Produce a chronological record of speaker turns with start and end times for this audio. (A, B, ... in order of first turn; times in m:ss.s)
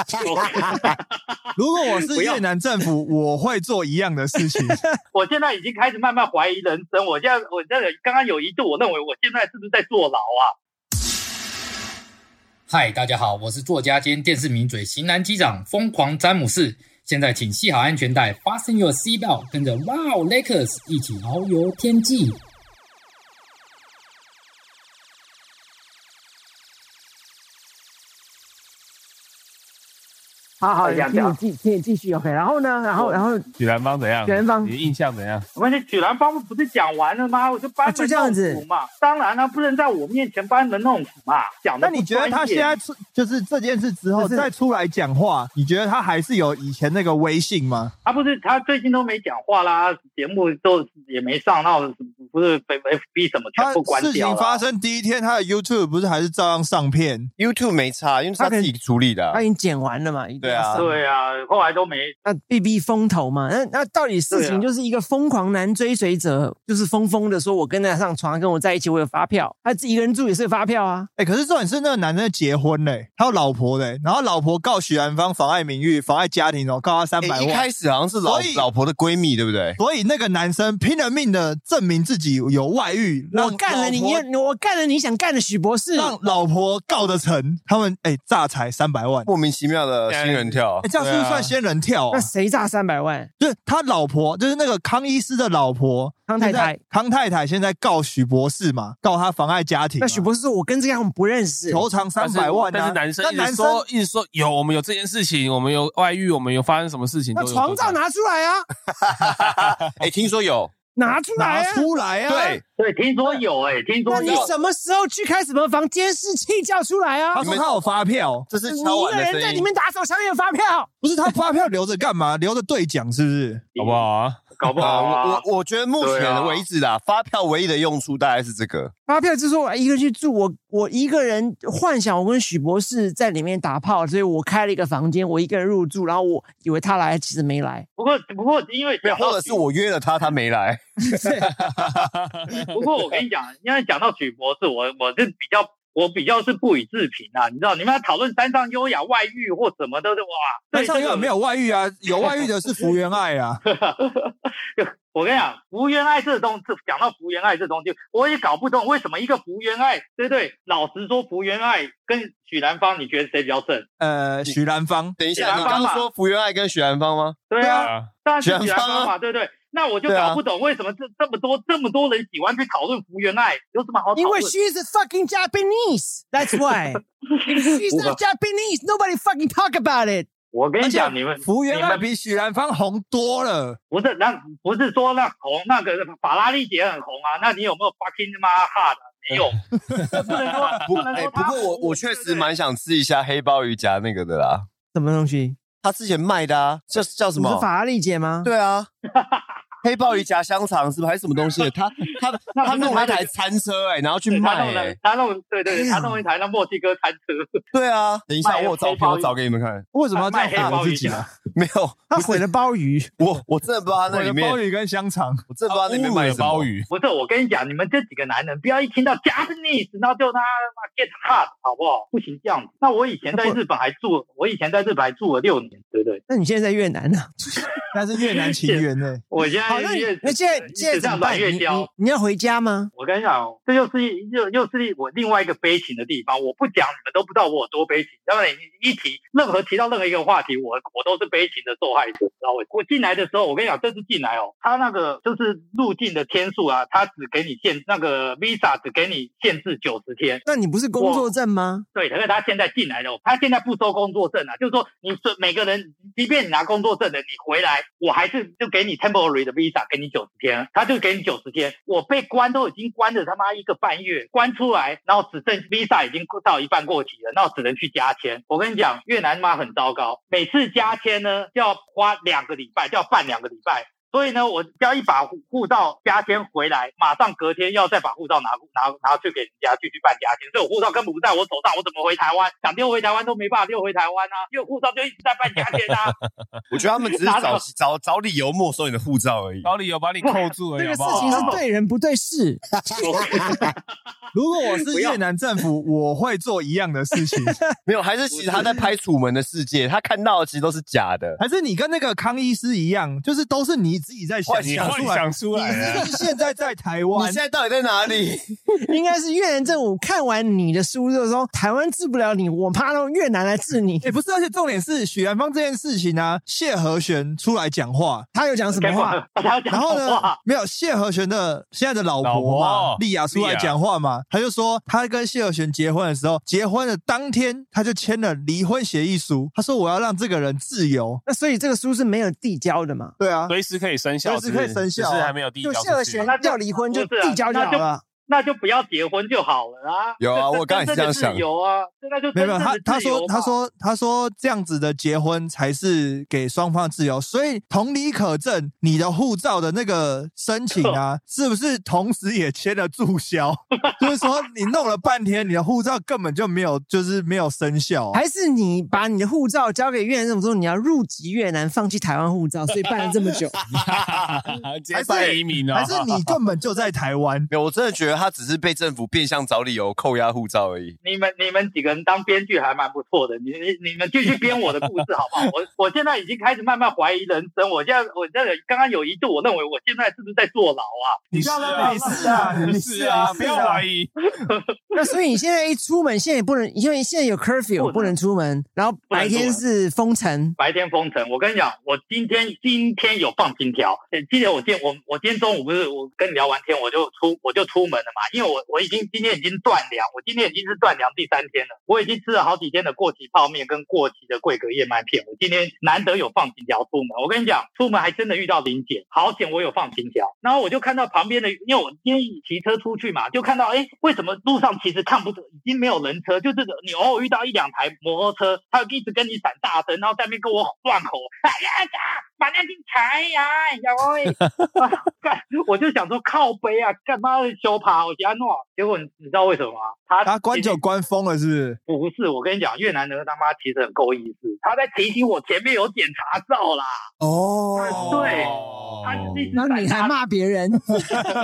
0:00.2-0:01.3 A
0:01.6-0:04.8 B
0:02.1-0:02.4 A
0:05.1-0:10.5 A
0:12.7-0:22.4 C
0:30.6-0:33.5 D
0:30.8-0:31.4 A
0:32.9-0:33.2 A
0:33.6-0:35.4 E
0:34.2-0:34.7 D
0:35.6-0:42.7 A
0:37.8-0:38.6 D
0:41.8-0:47.9 B
0:44.2-0:44.5 D
0:48.0-0:54.6 A
0:53.6-0:57.3 B
0:57.4-0:59.4 F
0:58.4-0:58.7 D
0:59.3-1:00.9 D
1:00.4-1:00.9 F
1:00.8-1:02.2 A
1:02.2-1:11.1 D
1:04.3-1:04.6 A
1:11.2-1:17.7 B
1:17.2-1:19.8 F
1:18.2-1:18.6 B
1:19.8-1:24.2 B
1:23.3-1:26.1 D
1:26.0-1:29.3 B
1:29.2-1:30.8 F
1:30.1-1:31.5 E
1:30.8-1:32.3 B
1:32.1-1:33.3 D
1:33.4-1:40.3 B
1:36.3-1:36.8 D
1:40.0-1:41.8 D
1:41.7-1:43.8 B
1:42.2-1:48.0 E
1:47.3-1:48.6 D
1:49.0-1:50.8 F
1:50.9-1:51.9 D
1:51.4-1:52.6 B
1:52.3-1:52.6 F
1:52.8-1:54.5 A
1:54.1-1:57.5 D
1:54.2-1:54.4 E
1:57.3-1:58.5 B
1:57.4-1:57.7 F
1:58.5-1:59.7 F
1:58.6-2:00.9 D
2:01.0-2:03.7 B
2:03.8-2:05.4 A
2:03.8-2:04.4 E
2:04.8-2:08.9 F
2:06.0-2:06.6 A
2:09.1-2:17.8 D
2:18.0-2:19.6 A
2:19.0-2:22.0 F
2:21.1-2:21.5 D
2:21.7-2:22.7 E
2:22.7-2:31.3 A
2:30.7-2:33.6 B
2:33.6-2:43.9 A
2:44.0-2:45.8 B
2:45.2-2:47.5 F
2:45.3-2:46.1 A
2:47.5-2:54.5 A
2:47.6-2:48.1 E
2:48.4-2:49.1 F
2:50.1-2:50.4 F
2:54.2-3:00.3 D
2:57.3-2:58.2 A
3:00.5-3:02.0 A
3:00.8-3:03.8 B
3:03.9-3:12.5 A
3:10.8-3:14.7 F
3:14.9-3:15.6 D
3:15.7-3:17.7 F
3:17.3-3:18.5 D
3:18.4-3:18.9 F
3:19.1-3:19.6 A
3:19.8-3:25.0 F
3:22.5-3:23.3 A
3:24.3-3:27.6 A
3:25.7-3:26.2 D
3:27.7-3:29.9 F
3:28.4-3:29.3 A
3:29.9-3:31.3 B
3:30.1-3:31.3 A
3:31.5-3:32.5 F
3:32.1-3:33.1 D
3:33.2-3:34.6 F
3:34.1-3:35.4 B
3:35.5-3:36.7 F
3:35.7-3:36.9 E
3:36.9-3:46.2 A
3:43.3-3:43.6 D
3:46.3-3:47.6 D
3:47.9-3:49.2 B
3:48.5-3:51.9 A
3:49.6-3:52.9 D
3:52.9-4:10.4 A
4:10.4-4:11.8 D
4:11.0-4:11.3 A
4:11.9-4:46.2 A
4:46.7-4:49.7 F
4:47.2-4:47.6 A
4:49.6-4:51.6 E
4:50.8-4:52.6 D
4:51.1-4:51.6 A
4:53.0-4:53.8 A
4:54.3-4:57.6 B
4:54.9-4:55.2 A
4:57.3-4:57.6 D
4:57.8-5:01.4 F
5:01.4-5:07.4 B
5:04.5-5:04.8 F
5:04.6-5:06.1 E
5:05.7-5:06.0 D
5:07.1-5:08.6 F
5:08.8-5:14.1 D
5:14.0-5:18.3 B
5:18.3-5:19.2 D
5:18.7-5:20.4 A
5:19.7-5:31.2 B
5:22.2-5:23.7 E
5:31.2-5:33.1 D
5:33.2-5:33.5 B
5:33.5-5:36.3 E
5:34.2-5:35.3 B
5:35.6-5:38.0 D
5:36.2-5:43.5 A
5:40.2-5:41.4 F
5:42.3-5:58.2 B
5:50.7-5:51.0 A
5:58.1-6:03.6 D
6:03.7-6:06.3 E
6:04.9-6:05.4 F
6:05.7-6:07.5 B
6:07.5-6:11.0 F
6:11.0-6:22.4 A
6:21.3-6:24.1 E
6:21.3-6:23.8 B
6:24.5-6:25.1 A
6:25.0-6:30.5 D
6:27.8-6:28.2 A
6:29.1-6:29.6 A
6:30.6-7:10.8 A
7:10.2-7:11.8 B
7:11.9-7:17.0 A
7:17.2-7:18.5 F
7:17.7-7:20.2 A
7:17.9-7:19.5 E
7:19.5-7:21.0 D